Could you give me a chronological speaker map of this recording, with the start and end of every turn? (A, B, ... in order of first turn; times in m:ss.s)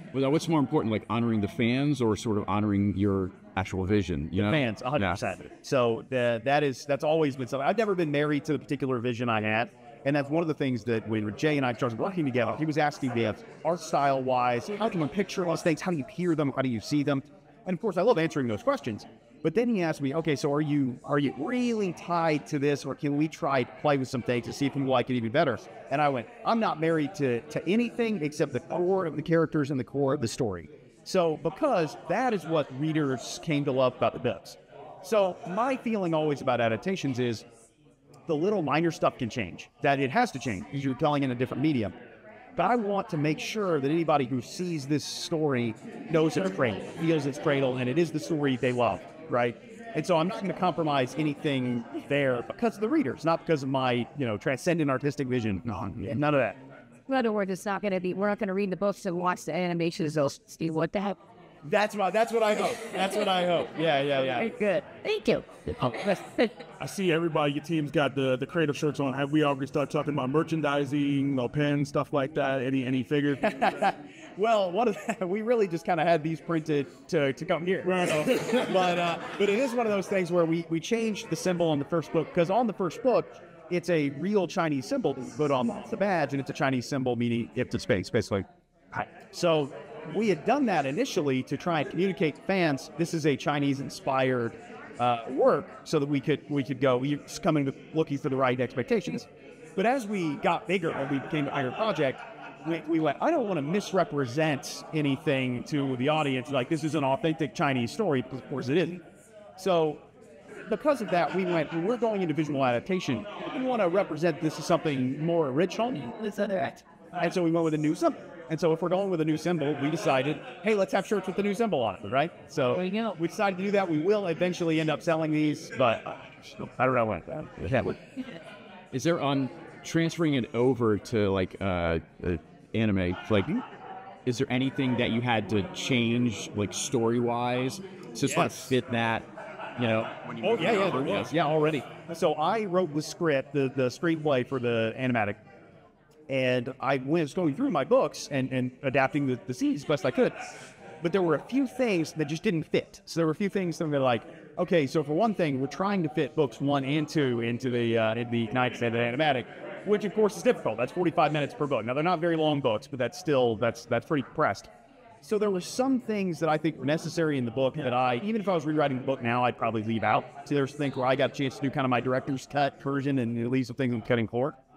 0:00.1-0:05.2 A
0:04.4-0:37.4 B
0:38.3-0:41.9 B
0:42.6-0:56.6 B
0:57.1-1:01.2 C
1:01.6-1:04.5 B
1:04.3-1:06.6 C
1:06.8-1:13.4 D
1:13.4-1:49.0 B
1:17.8-1:18.8 D
1:49.6-1:50.0 B
1:50.7-1:56.1 B
1:56.1-1:56.8 C
1:57.1-2:08.0 B
2:02.7-2:03.1 C
2:08.9-2:13.6 A
2:14.2-2:21.3 A
2:18.3-2:18.8 B
2:20.4-2:25.4 B
2:26.3-2:30.4 B
2:31.0-2:44.7 B
2:45.2-2:54.6 B